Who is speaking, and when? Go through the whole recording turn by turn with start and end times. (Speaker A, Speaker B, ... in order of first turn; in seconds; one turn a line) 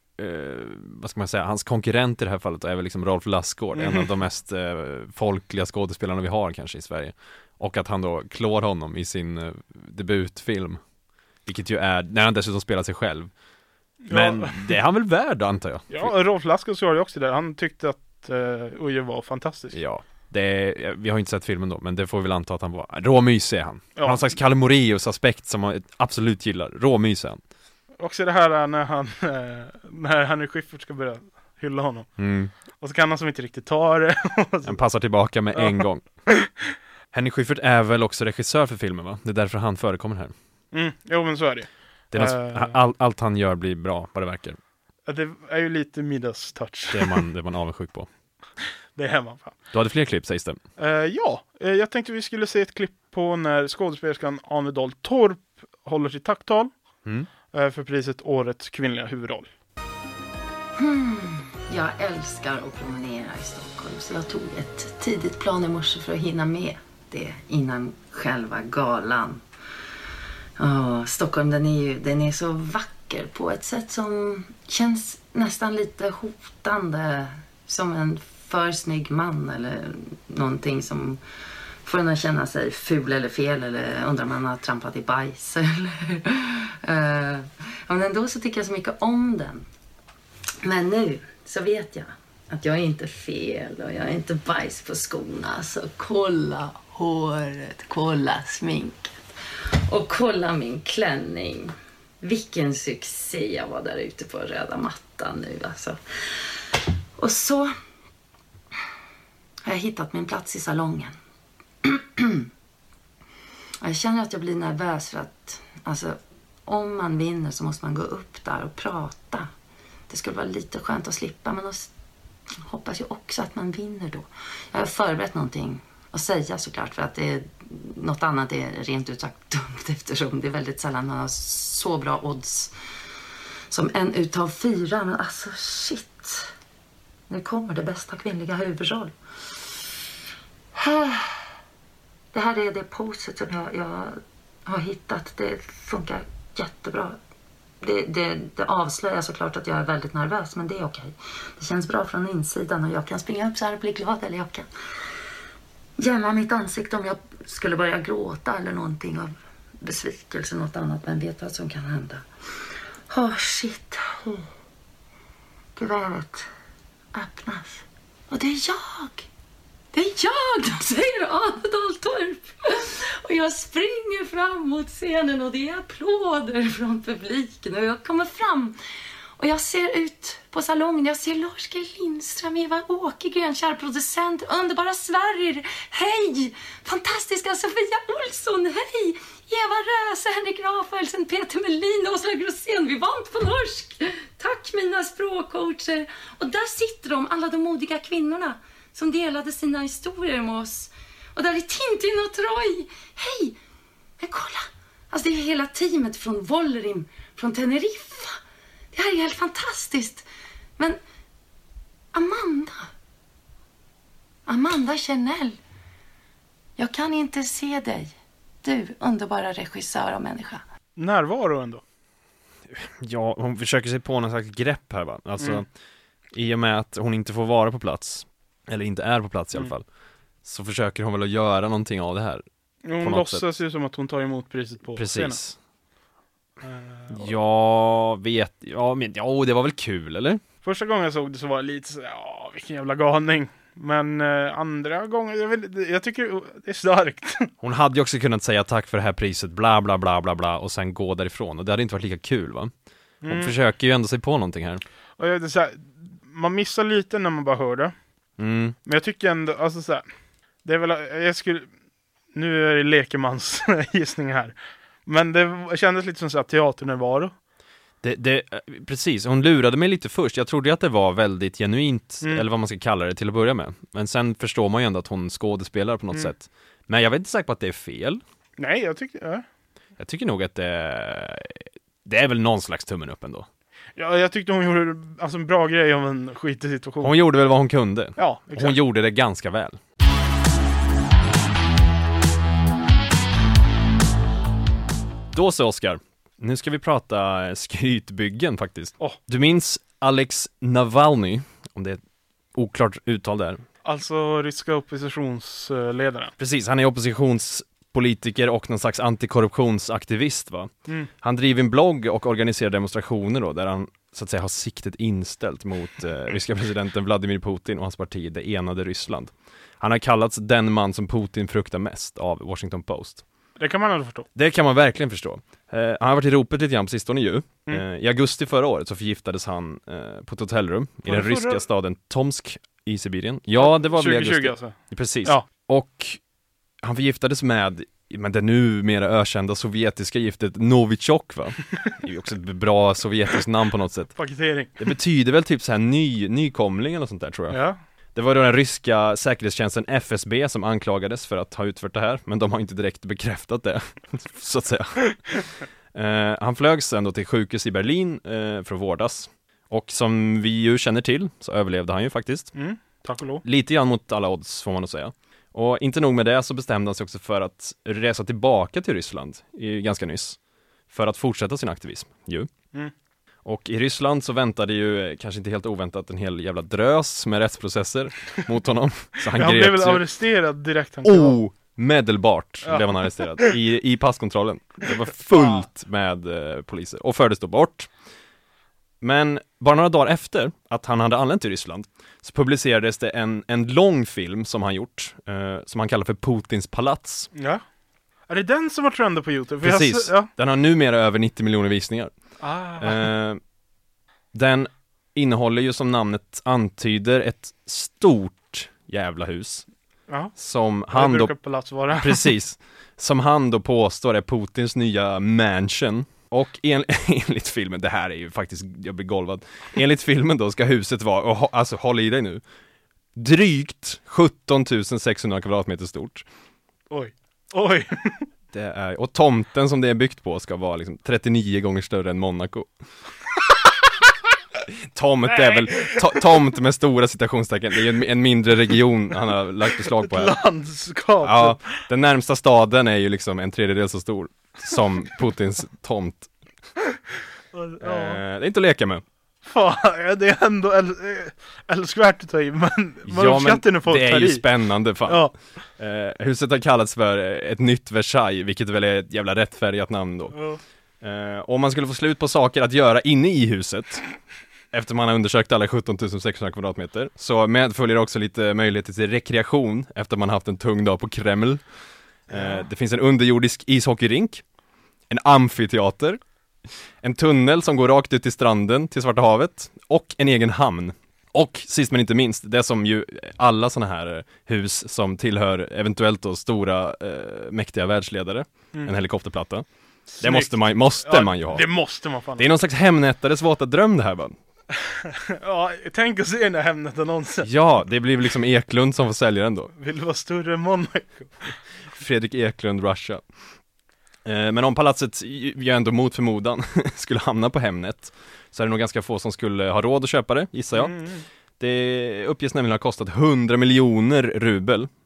Speaker A: 0.2-10.8
Speaker B: 3.8-4.1
Speaker A: 11.5-13.3
Speaker B: 14.0-14.8
Speaker A: 14.1-16.1
Speaker B: 15.9-19.8
Speaker A: 19.7-27.4
Speaker B: 24.0-24.3
Speaker B: 28.0-32.1
Speaker A: 32.2-32.5
Speaker B: 32.7-34.8
Speaker A: 34.6-36.0
Speaker B: 35.5-35.9
Speaker A: 37.1-40.3
Speaker B: 40.7-42.8
Speaker A: 42.1-44.6
Speaker B: 45.1-47.2
Speaker A: 46.9-48.1
Speaker B: 49.0-49.6
Speaker A: 49.7-50.6
Speaker B: 50.8-56.7
Speaker B: 57.5-59.5
Speaker C: 60.8-69.4
Speaker C: 70.6-81.2
Speaker C: 81.8-89.7
Speaker C: 90.6-99.1
Speaker C: 99.9-106.0
Speaker C: 107.2-107.7
Speaker C: 109.7-111.2
Speaker C: 111.8-112.4
Speaker C: 113.8-119.5
Speaker C: 120.1-121.9
Speaker C: 122.7-132.7
Speaker C: 133.7-136.5
Speaker C: 137.3-139.1
Speaker C: 140.8-141.4
Speaker C: 142.3-147.2
Speaker C: 147.8-154.7
Speaker C: 156.0-162.2
Speaker C: 163.1-164.5
Speaker C: 165.8-166.5
Speaker C: 167.1-169.3
Speaker C: 169.9-178.8
Speaker C: 179.4-203.6
Speaker C: 204.2-208.4
Speaker C: 208.9-211.0
Speaker C: 212.1-212.9
Speaker C: 214.5-215.6
Speaker C: 216.8-220.6
Speaker B: 221.0-221.8
Speaker A: 222.7-225.7
Speaker B: 225.4-225.6
Speaker A: 226.3-229.9
Speaker A: 230.4-232.4
Speaker B: 232.8-235.4
Speaker A: 233.0-233.4
Speaker A: 235.0-235.6
Speaker B: 236.6-237.3
Speaker A: 237.1-240.4
Speaker B: 240.6-247.5
Speaker A: 247.6-252.7
Speaker B: 253.2-253.6
Speaker A: 253.3-254.8
Speaker B: 255.2-257.9
Speaker A: 258.4-258.8
Speaker B: 258.9-260.0
Speaker B: 260.6-261.7
Speaker B: 262.3-267.3
Speaker A: 268.0-278.2
Speaker B: 278.6-279.4
Speaker A: 280.0-283.5
Speaker B: 284.0-287.2
Speaker A: 287.0-289.8
Speaker B: 288.2-288.8
Speaker A: 295.3-302.0
Speaker A: 302.5-303.6
Speaker B: 303.9-306.3
Speaker A: 306.4-323.2
Speaker B: 323.6-324.3
Speaker A: 324.4-336.2
Speaker B: 331.1-331.6
Speaker B: 333.6-335.4
Speaker A: 336.8-344.3
Speaker B: 344.1-344.9
Speaker A: 344.8-347.6
Speaker B: 347.5-347.8
Speaker A: 348.1-362.6
Speaker B: 362.6-363.4
Speaker A: 363.4-370.4
Speaker A: 370.9-372.5
Speaker A: 373.4-380.1
Speaker B: 379.3-381.4
Speaker A: 381.0-387.9
Speaker B: 382.6-383.5
Speaker B: 385.3-385.7
Speaker A: 389.0-397.3
Speaker B: 397.4-397.6
Speaker B: 398.3-400.3
Speaker A: 399.6-402.1
Speaker B: 402.4-403.1
Speaker A: 402.8-403.4
Speaker A: 404.3-409.7
Speaker B: 410.1-410.3
Speaker A: 410.4-411.4
Speaker B: 410.9-412.3
Speaker A: 411.9-422.4
Speaker A: 423.1-426.3
Speaker B: 426.9-428.3
Speaker A: 428.5-432.7
Speaker A: 434.7-440.4
Speaker B: 435.3-436.0
Speaker B: 439.9-441.9
Speaker A: 441.2-446.3
Speaker B: 447.5-448.2
Speaker A: 447.8-449.0
Speaker B: 449.4-454.4
Speaker A: 453.1-460.4
Speaker B: 455.1-455.3
Speaker B: 460.3-460.6
Speaker A: 461.0-464.1
Speaker A: 464.7-471.6
Speaker A: 472.3-474.5
Speaker B: 472.3-472.7
Speaker A: 475.1-476.2
Speaker A: 477.0-494.4
Speaker B: 490.1-492.5
Speaker B: 495.4-497.5
Speaker A: 497.4-499.7
Speaker B: 499.8-501.6
Speaker A: 502.0-503.3
Speaker A: 504.2-511.0
Speaker B: 510.7-511.2
Speaker A: 511.6-514.9